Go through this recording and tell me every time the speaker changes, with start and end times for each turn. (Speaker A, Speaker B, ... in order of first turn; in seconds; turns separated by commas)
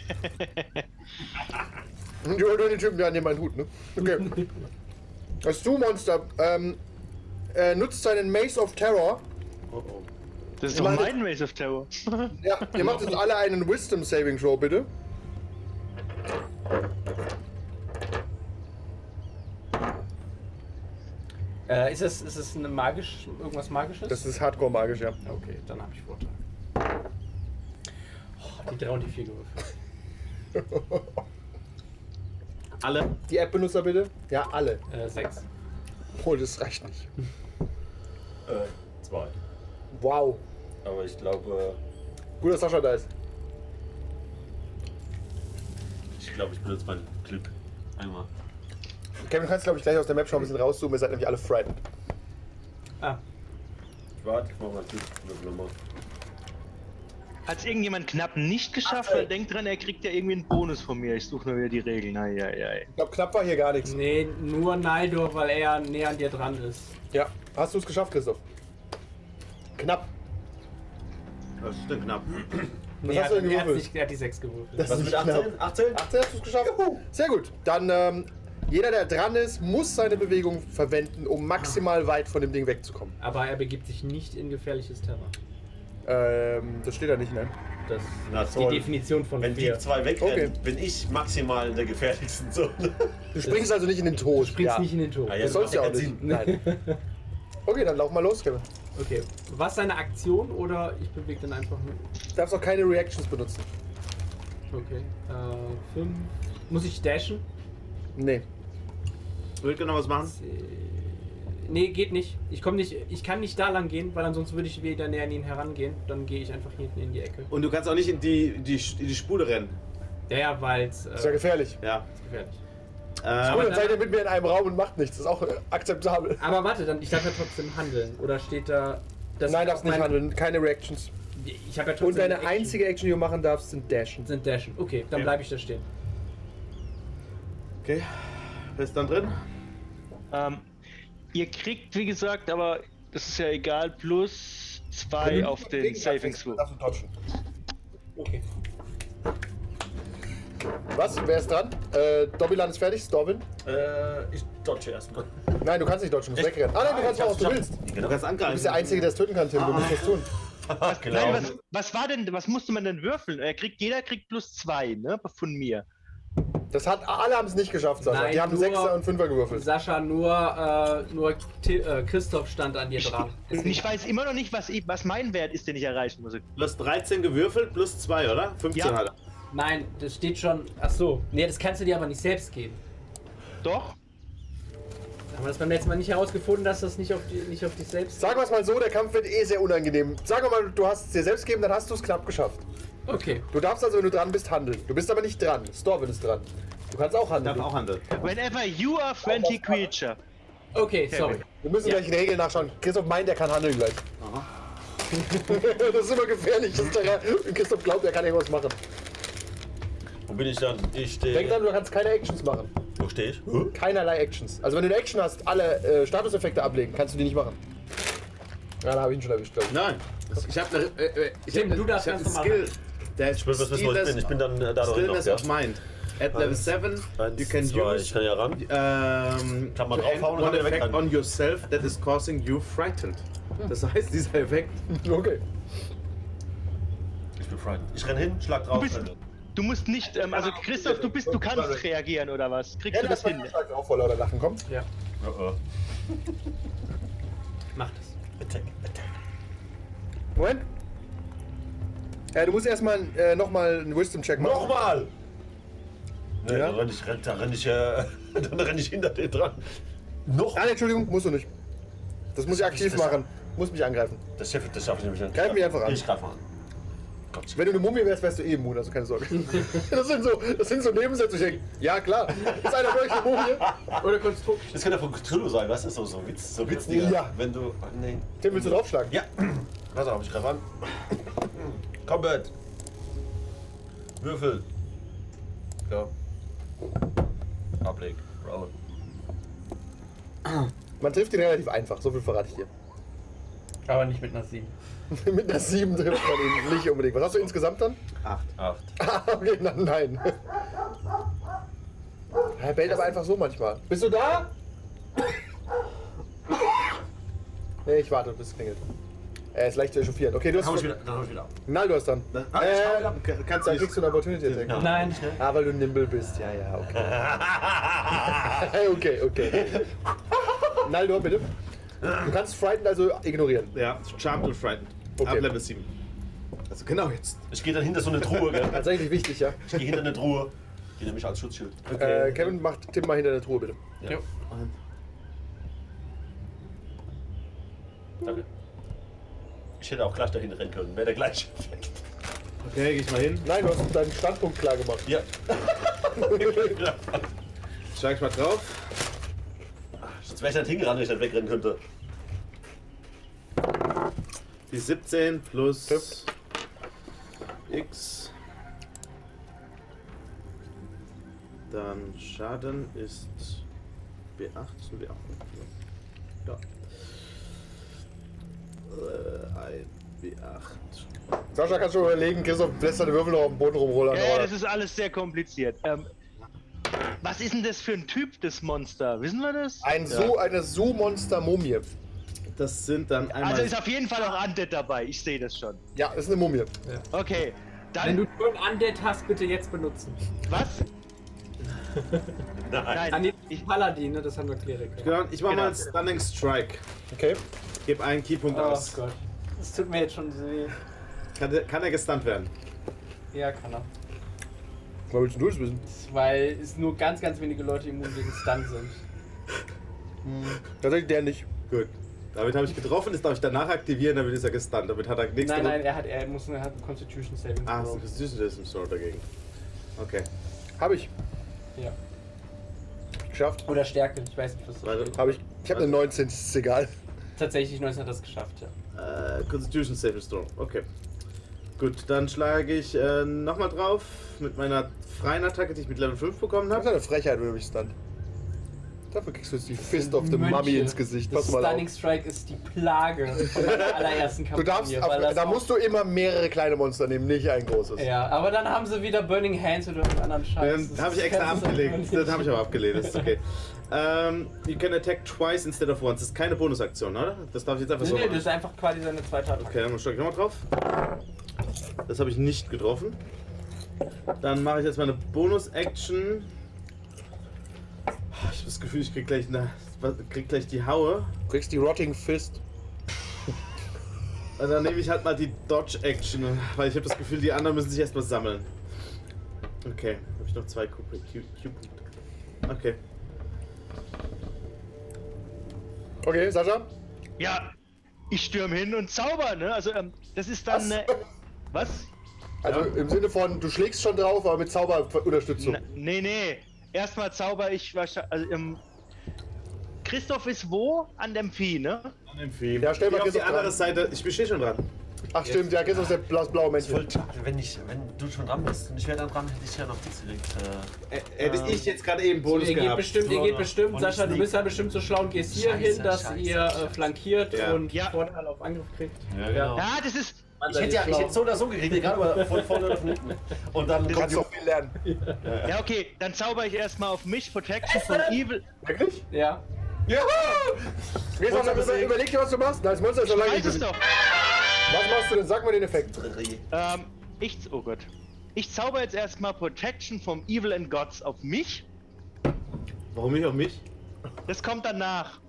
Speaker A: 0.2-0.8, Speaker B: 2.2-4.5, Speaker B: 5.4-6.8, Speaker B: 7.5-9.2, Speaker C: 9.7-10.1, Speaker A: 10.6-13.0, Speaker B: 10.7-11.2, Speaker B: 12.4-14.9, Speaker D: 21.7-24.3, Speaker B: 24.1-25.2, Speaker D: 25.2-26.4, Speaker D: 28.4-29.7, Speaker B: 30.6-31.2, Speaker C: 32.8-33.1, Speaker B: 33.3-34.8, Speaker D: 34.9-35.5, Speaker B: 36.1-37.1, Speaker E: 38.5-39.4, Speaker B: 39.9-40.4, Speaker E: 40.8-41.8, Speaker B: 42.4-43.1, Speaker E: 46.2-48.3, Speaker B: 49.2-51.8, Speaker E: 54.2-55.8, Speaker A: 57.5-62.9, Speaker E: 58.9-59.3, Speaker B: 62.9-64.0, Speaker D: 63.9-67.0, Speaker B: 67.1-68.4, Speaker B: 69.8-70.1, Speaker C: 71.6-72.7, Speaker D: 73.0-75.1, Speaker B: 73.0-73.9, Speaker B: 74.8-83.2, Speaker E: 74.8-76.0, Speaker D: 83.2-85.3, Speaker B: 86.0-87.5, Speaker D: 87.9-89.8, Speaker E: 88.3-93.2, Speaker B: 90.2-90.5, Speaker B: 93.3-96.7, Speaker D: 93.4-93.7, Speaker D: 94.3-97.0, Speaker E: 95.3-96.2, Speaker B: 97.7-98.7, Speaker D: 99.0-102.1, Speaker B: 102.3-103.7, Speaker D: 104.7-107.5, Speaker B: 108.2-108.5, Speaker C: 109.6-110.3, Speaker D: 110.2-117.5, Speaker C: 117.5-119.8, Speaker D: 120.3-121.5, Speaker B: 121.2-121.8, Speaker C: 121.8-122.1, Speaker D: 122.2-122.6, Speaker C: 123.2-123.9, Speaker D: 123.4-124.0, Speaker B: 123.4-126.5, Speaker D: 126.4-130.2, Speaker B: 129.4-131.1, Speaker D: 131.3-132.8, Speaker B: 132.0-134.3, Speaker D: 134.2-135.9, Speaker C: 137.8-139.4, Speaker A: 140.3-140.7, Speaker A: 141.3-146.6, Speaker B: 145.2-147.1, Speaker D: 148.2-148.4, Speaker B: 150.9-153.5, Speaker E: 153.7-155.6, Speaker B: 155.6-157.8, Speaker E: 156.3-158.2, Speaker C: 158.0-160.1, Speaker B: 158.5-160.3, Speaker E: 160.7-161.6, Speaker A: 160.8-165.8, Speaker B: 166.7-169.7, Speaker D: 168.0-173.9, Speaker A: 173.2-176.4, Speaker C: 176.6-179.1, Speaker D: 179.5-182.8, Speaker A: 183.6-184.0, Speaker D: 185.3-188.3, Speaker B: 188.2-192.6, Speaker D: 193.1-193.5, Speaker B: 193.4-197.7, Speaker C: 197.4-198.1, Speaker A: 198.2-200.2, Speaker B: 199.2-199.9, Speaker D: 200.7-201.4, Speaker A: 201.1-201.4, Speaker B: 201.5-204.0, Speaker C: 204.2-204.5, Speaker B: 205.4-208.8, Speaker E: 210.3-211.7, Speaker B: 211.3-212.7, Speaker E: 213.0-213.8, Speaker B: 213.7-217.6, Speaker B: 218.8-219.8, Speaker C: 219.7-234.8, Speaker D: 221.5-222.7, Speaker E: 223.4-225.5, Speaker E: 226.3-228.6, Speaker E: 229.8-231.1, Speaker B: 234.9-235.4, Speaker E: 237.4-239.2, Speaker A: 238.7-243.5, Speaker B: 240.5-241.8, Speaker B: 242.9-244.6, Speaker E: 245.2-245.6, Speaker D: 247.8-248.2, Speaker E: 248.4-249.0, Speaker B: 250.3-250.7, Speaker B: 252.3-254.8, Speaker E: 254.4-255.1, Speaker E: 256.4-259.7, Speaker B: 256.4-256.8, Speaker E: 260.3-260.7, Speaker B: 260.5-261.5, Speaker B: 262.3-264.2, Speaker E: 262.5-263.2, Speaker E: 264.4-266.4, Speaker B: 265.3-266.1, Speaker E: 267.3-267.6, Speaker B: 267.5-273.7, Speaker E: 272.4-274.0, Speaker D: 273.9-274.9, Speaker E: 274.7-282.5, Speaker D: 276.7-277.1, Speaker B: 276.8-277.4, Speaker B: 278.4-279.1, Speaker E: 284.2-284.7, Speaker E: 285.9-286.1, Speaker E: 287.8-288.8, Speaker B: 291.0-292.7, Speaker D: 293.9-294.7, Speaker B: 295.1-298.0, Speaker C: 298.2-298.5, Speaker E: 298.6-298.9, Speaker B: 299.0-300.4, Speaker B: 302.6-304.5, Speaker B: 307.9-308.8, Speaker B: 309.5-311.0, Speaker E: 310.5-311.5, Speaker B: 311.7-317.2, Speaker C: 312.3-314.1, Speaker E: 314.4-315.4, Speaker D: 314.7-315.3, Speaker E: 316.9-318.7, Speaker B: 318.3-319.9, Speaker E: 319.4-320.7, Speaker B: 320.8-321.5, Speaker B: 322.1-323.8, Speaker C: 323.7-325.9, Speaker B: 325.2-325.5, Speaker C: 326.7-327.4, Speaker E: 327.5-328.9, Speaker B: 328.6-329.7, Speaker E: 329.7-332.6, Speaker B: 332.0-333.8, Speaker C: 334.5-334.7, Speaker E: 339.8-342.0, Speaker C: 342.6-343.5, Speaker B: 343.4-345.1, Speaker E: 345.1-347.3, Speaker B: 346.1-346.7, Speaker C: 347.9-348.9, Speaker E: 350.0-351.8, Speaker C: 354.7-356.3, Speaker C: 357.7-358.3, Speaker C: 361.7-363.6, Speaker C: 364.4-365.7, Speaker C: 368.9-371.1, Speaker B: 371.6-374.5, Speaker A: 374.1-376.1, Speaker A: 377.2-380.3, Speaker B: 379.8-381.9, Speaker C: 382.6-383.8, Speaker A: 383.3-385.8, Speaker B: 385.9-386.7, Speaker A: 387.1-388.2, Speaker D: 388.0-390.2, Speaker A: 390.5-390.9, Speaker E: 392.6-393.3, Speaker A: 392.9-393.6, Speaker D: 393.1-395.1, Speaker C: 395.0-396.8, Speaker A: 395.5-395.9, Speaker B: 397.1-397.4, Speaker C: 397.9-399.0, Speaker D: 398.5-400.8, Speaker C: 401.4-402.5, Speaker D: 403.3-403.9, Speaker B: 405.1-405.8, Speaker D: 405.9-409.1, Speaker B: 410.2-411.5, Speaker C: 411.7-415.8, Speaker D: 415.4-418.0, Speaker C: 417.7-419.2, Speaker C: 420.0-420.3, Speaker B: 420.8-421.1, Speaker B: 423.3-423.7, Speaker D: 423.7-425.2, Speaker C: 424.8-426.1, Speaker B: 425.2-426.9, Speaker D: 427.4-428.7, Speaker C: 428.9-430.9, Speaker C: 431.8-436.9, Speaker B: 436.7-437.9, Speaker B: 439.1-441.9, Speaker D: 439.8-445.7, Speaker B: 443.4-448.1, Speaker D: 448.0-453.3, Speaker C: 450.6-458.5, Speaker D: 458.0-459.8, Speaker C: 459.6-460.7, Speaker C: 462.1-463.2, Speaker C: 464.4-466.5, Speaker C: 468.3-471.3, Speaker B: 471.5-472.6, Speaker C: 474.6-478.7, Speaker C: 479.8-482.0, Speaker C: 482.7-483.0, Speaker B: 486.2-486.9, Speaker A: 487.4-487.7, Speaker A: 488.3-491.1, Speaker B: 490.7-491.2, Speaker A: 491.7-492.1, Speaker B: 492.6-495.8, Speaker C: 492.6-492.9, Speaker A: 495.6-498.8, Speaker A: 500.1-502.1, Speaker C: 502.3-504.9, Speaker B: 502.8-503.8, Speaker B: 505.3-507.1, Speaker D: 505.4-506.2, Speaker E: 506.8-511.9, Speaker C: 511.1-513.3, Speaker D: 512.5-519.8, Speaker E: 513.1-514.9, Speaker E: 515.5-517.1, Speaker C: 517.5-517.9, Speaker A: 517.9-518.2, Speaker E: 519.3-520.0, Speaker A: 519.8-520.6, Speaker D: 520.6-523.2, Speaker E: 520.6-524.5, Speaker B: 524.1-525.0, Speaker D: 525.0-525.4, Speaker E: 525.4-525.9, Speaker A: 525.6-528.6, Speaker D: 527.9-528.3, Speaker B: 528.8-529.3, Speaker D: 529.3-529.6, Speaker B: 530.1-530.8, Speaker E: 530.1-530.7, Speaker B: 531.3-533.9, Speaker E: 531.4-532.2, Speaker A: 533.2-534.0, Speaker B: 534.7-536.2, Speaker E: 536.2-536.6, Speaker A: 536.7-541.9, Speaker C: 543.1-543.8, Speaker A: 544.5-545.4